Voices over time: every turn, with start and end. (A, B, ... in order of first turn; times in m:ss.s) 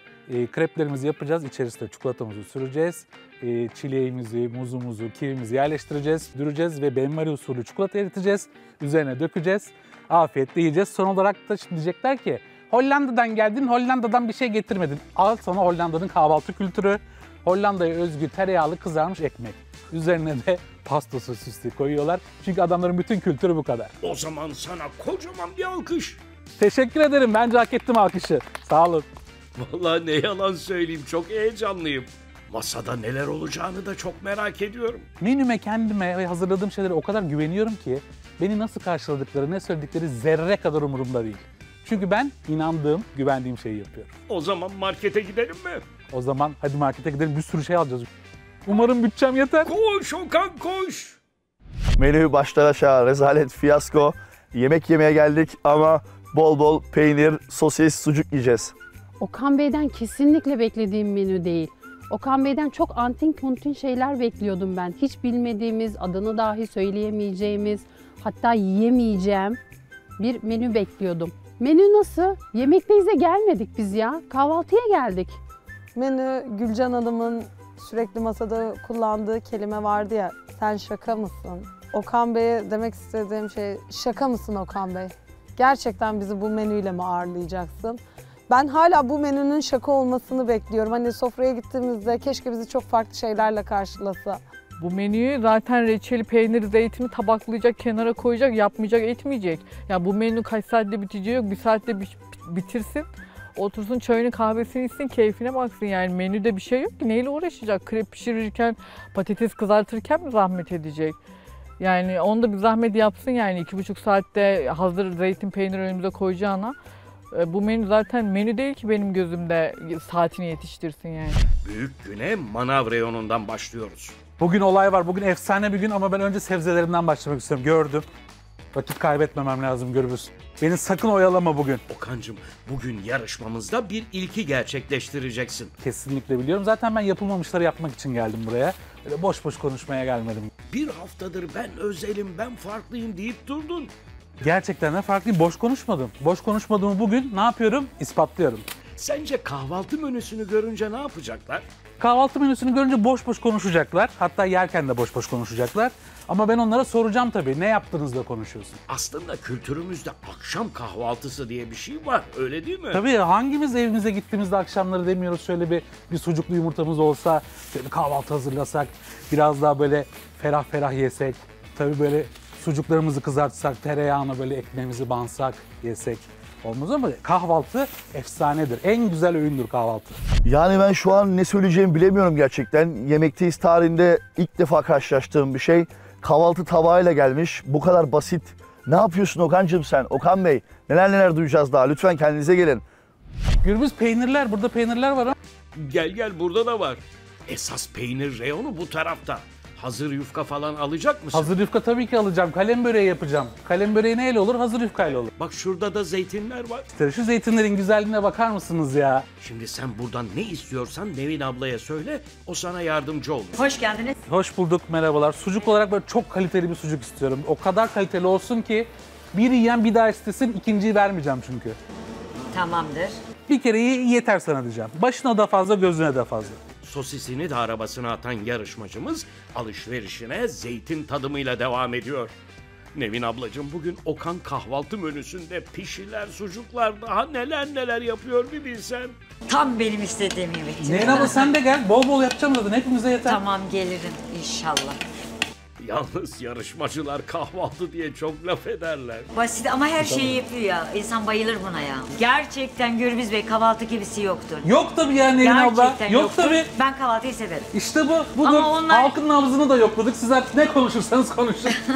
0:00.3-0:23.9 A
0:24.0-0:26.2 B
0:26.6-0:29.1 A
0:29.6-0:35.1 B
0:35.2-0:44.1 A
0:44.3-0:45.8 B
0:46.1-0:48.1 A
0:48.7-0:49.7 A
0:49.6-0:51.2 B
0:52.0-0:58.7 C
0:59.2-1:09.6 D
1:10.2-1:15.4 D
1:16.0-1:34.4 E
1:34.8-1:51.2 F
1:51.8-1:56.8 F
1:57.3-2:01.4 F
2:01.6-2:04.2 B
2:04.4-2:08.0 A
2:08.8-2:11.8 A
2:11.9-2:15.7 B
2:15.8-2:20.5 A
2:20.7-2:23.9 B
2:24.4-2:28.6 A
2:29.0-2:31.6 B
2:32.0-2:38.8 A
2:38.9-2:43.0 B
2:42.9-3:00.2 A
3:00.4-3:12.8 C
3:13.6-3:15.3 A
3:15.8-3:21.5 B
3:21.3-3:25.3 A
3:25.4-3:26.9 B
3:26.9-3:29.2 A
3:29.4-3:33.6 B
3:33.6-3:34.2 G
3:34.3-3:41.8 A
3:42.5-3:43.2 G
3:43.5-3:46.6 A
3:46.8-3:52.3 B
3:52.9-3:59.2 B
3:59.5-4:01.5 G
4:00.8-4:03.4 A
4:03.3-4:05.0 G
4:05.8-4:09.3 B
4:09.3-4:14.7 G
4:10.0-4:10.4 A
4:14.6-4:16.7 A
4:15.2-4:17.7 G
4:17.7-4:21.8 A
4:18.4-4:19.2 G